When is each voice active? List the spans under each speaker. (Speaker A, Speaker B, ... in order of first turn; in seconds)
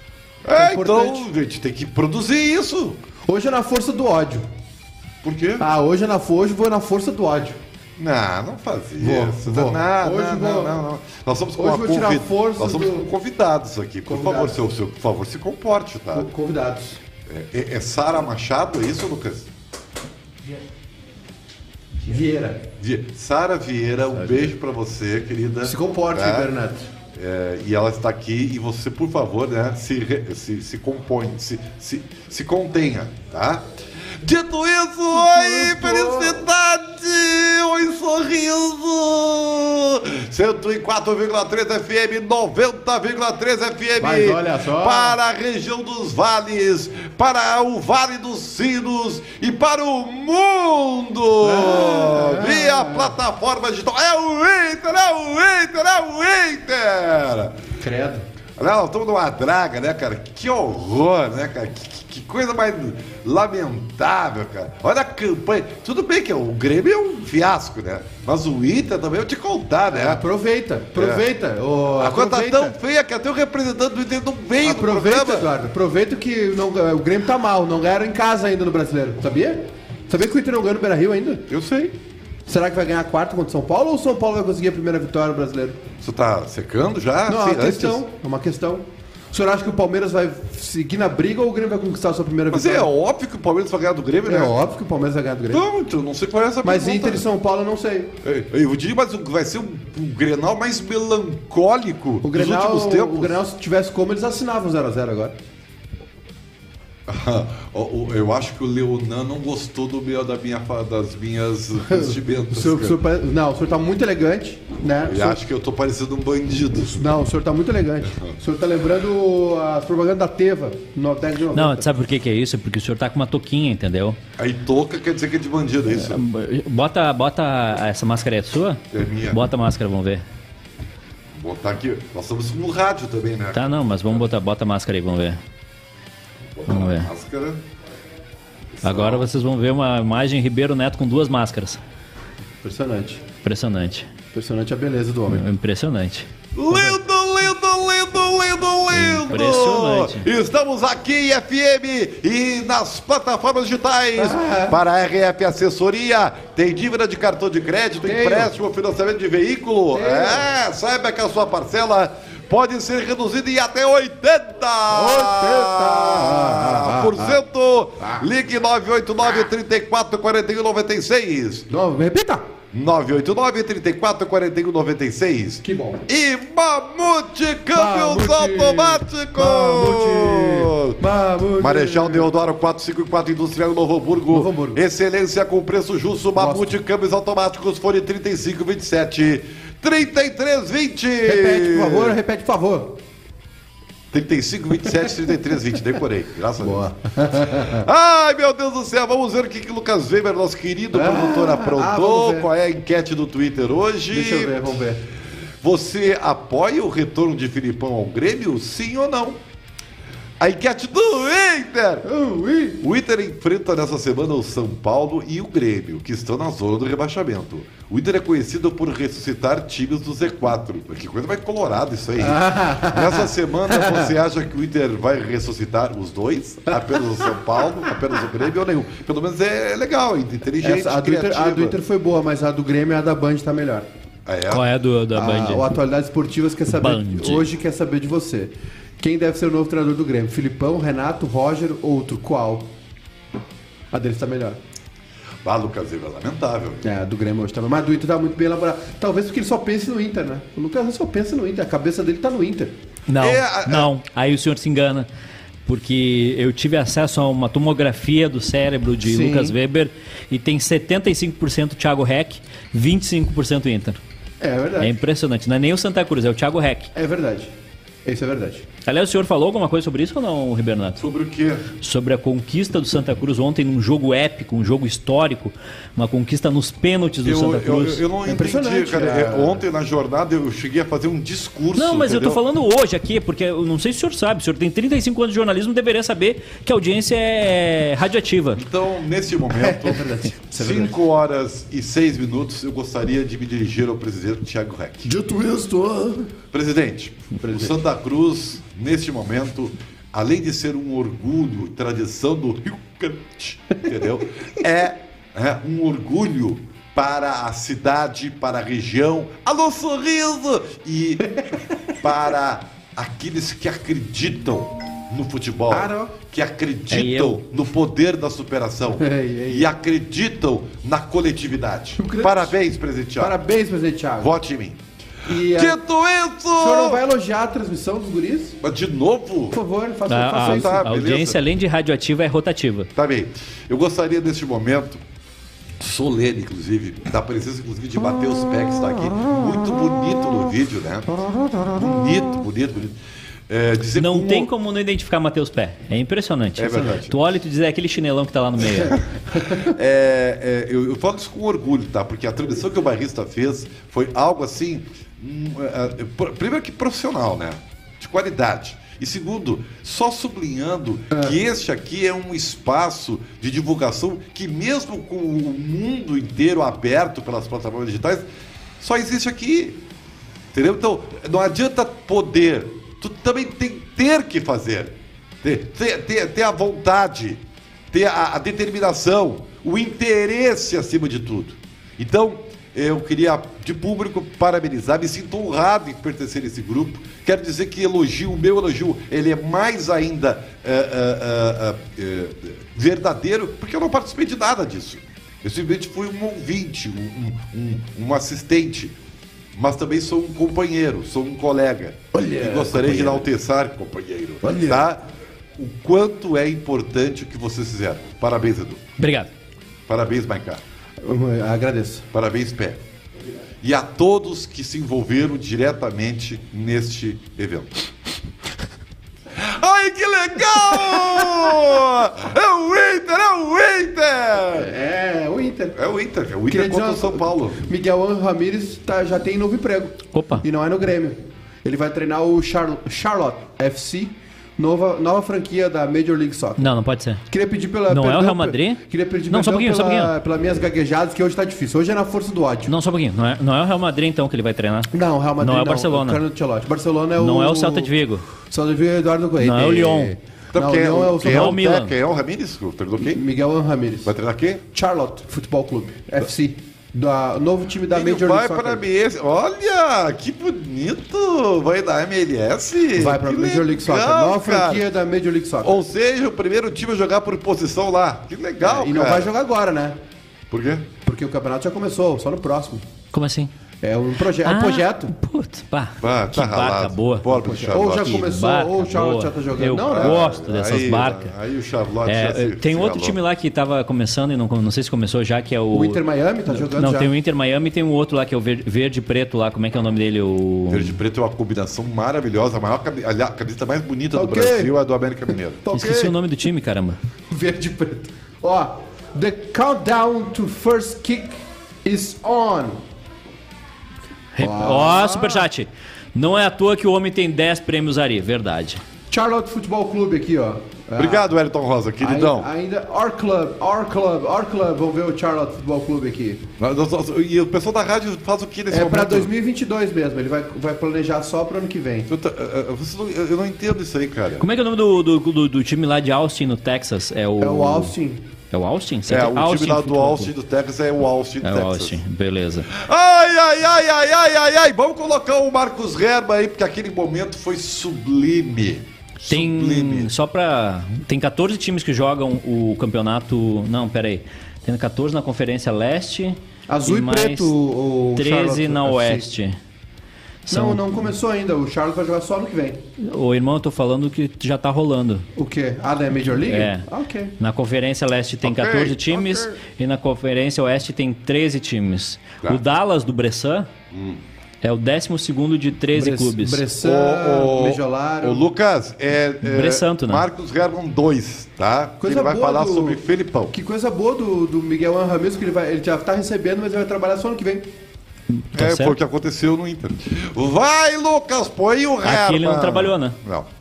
Speaker A: 0.4-3.0, 5.2-5.7, 8.0-16.3, 17.3-19.5, 22.8-26.6, 27.1-57.6, 58.6-70.2, 71.0-71.2, 72.0-75.5, 81.5-82.0, 86.0-88.0, 92.5-94.6, 95.5-97.2, 98.2-103.4, 107.1-113.0, 115.0-117.1, 124.4-126.2, 128.9-129.4, 131.3-133.7, 136.5-137.6, 138.8-139.3, 146.6-171.7, 172.7-181.0, 181.6-192.2, 194.1-204.7, 205.6-209.4, 210.4-212.1, 212.8-231.8, 234.3-234.7, 245.4-246.9, 253.2-253.9, 271.0-271.7, 277.2-282.4, 288.6-295.1, 296.5-311.4, 312.0-323.4, 324.2-324.8, 325.3-327.0, 328.6-329.6, 330.4-331.4, 333.0-335.0, 335.8-343.0, 343.5-344.5, 346.6-347.2, 348.9-368.3, 368.8-369.8, 370.5-398.9, 399.6-405.1, 405.6-408.8, 409.9-410.6, 412.1-412.8, 413.6-417.7, 419.4-424.7, 425.8-427.6, 450.5-453.2, 454.1-454.6, 457.9-464.9, 465.6-469.3, 470.5-470.9, 476.0-478.2, 479.9-483.2, 490.7-495.7, 511.0-512.5, 516.6-519.3, 522.1-524.5, 529.1-532.0, 532.7-540.1, 558.4-559.6, 563.9-564.2, 566.8-573.5, 578.5-583.5
Speaker B: 0.6-1.3, 3.3-4.5, 5.6-7.6, 9.0-10.8, 11.6-13.1, 14.1-14.6, 16.1-17.0, 22.1-22.7, 25.6-26.9, 35.1-36.5, 44.0-45.2, 51.4-53.1, 57.8-58.3, 69.9-72.8, 74.6-81.5, 82.5-85.8, 87.3-92.9, 94.3-95.7, 96.6-98.2, 102.2-105.4, 111.9-115.4, 116.9-121.9, 142.6-143.2, 144.3-145.4, 154.2-154.8, 158.0-158.5, 159.9-160.5, 164.9-167.4, 171.7-172.4, 175.6-176.1, 177.7-182.3, 184.3-184.8, 186.4-186.7, 191.2-193.0, 196.6-197.9, 200.9-202.5, 204.1-205.0, 212.0-212.8, 222.2-224.1, 226.7-227.3, 230.6-233.9, 235.1-242.7, 243.9-244.6, 246.8-252.8, 259.0-259.6, 264.4-265.0, 266.9-267.5, 268.1-268.7, 278.2-279.6, 289.5-290.9, 295.1-296.3, 297.4-297.7, 315.7-316.1, 319.0-319.7, 322.0-322.6, 323.2-324.3, 325.3-325.8, 326.6-328.6, 329.5-330.8, 361.1-361.4, 402.1-403.3, 404.4-404.8, 411.0-412.1, 424.5-425.8, 426.5-436.7, 437.3-442.7, 444.9-447.9, 448.5-451.6, 453.0-454.1, 454.7-458.8, 462.9-465.8, 468.6-470.0, 471.1-472.8, 473.8-475.1, 477.4-480.2, 485.7-487.1, 494.1-494.8, 495.6-496.1, 497.3-502.8, 504.4-505.4, 509.1-511.3, 512.0-516.4, 518.7-522.1, 527.4-528.2, 546.7-549.3, 550.5-552.8, 555.4-557.4, 566.0-568.5, 572.0-577.7
Speaker C: 121.5-124.2, 125.9-130.2, 133.5-135.4, 136.7-137.1, 138.8-141.8, 143.4-144.1, 145.3-146.3, 148.9-150.3, 234.5-235.6, 236.7-237.5, 253.1-255.1, 255.7-264.0, 264.8-266.9, 268.9-271.0, 271.8-278.0, 281.8-288.6, 316.9-317.4, 330.1-332.9, 344.0-349.0, 409.0-409.3, 430.1-430.4, 436.6-437.2, 437.9-440.1, 442.7-446.2, 447.2-448.3, 449.4-450.1, 451.2-451.9, 473.1-473.5, 474.4-481.3, 482.1-490.9, 495.7-497.0, 504.3-508.8, 524.4-527.9, 528.5-530.3, 531.4-532.7, 539.3-547.5, 548.1-549.6, 550.5-550.8, 553.0-555.3, 556.5-556.9, 557.4-563.7, 564.6-566.7, 569.4-570.3, 578.3-579.0, 582.0-583.2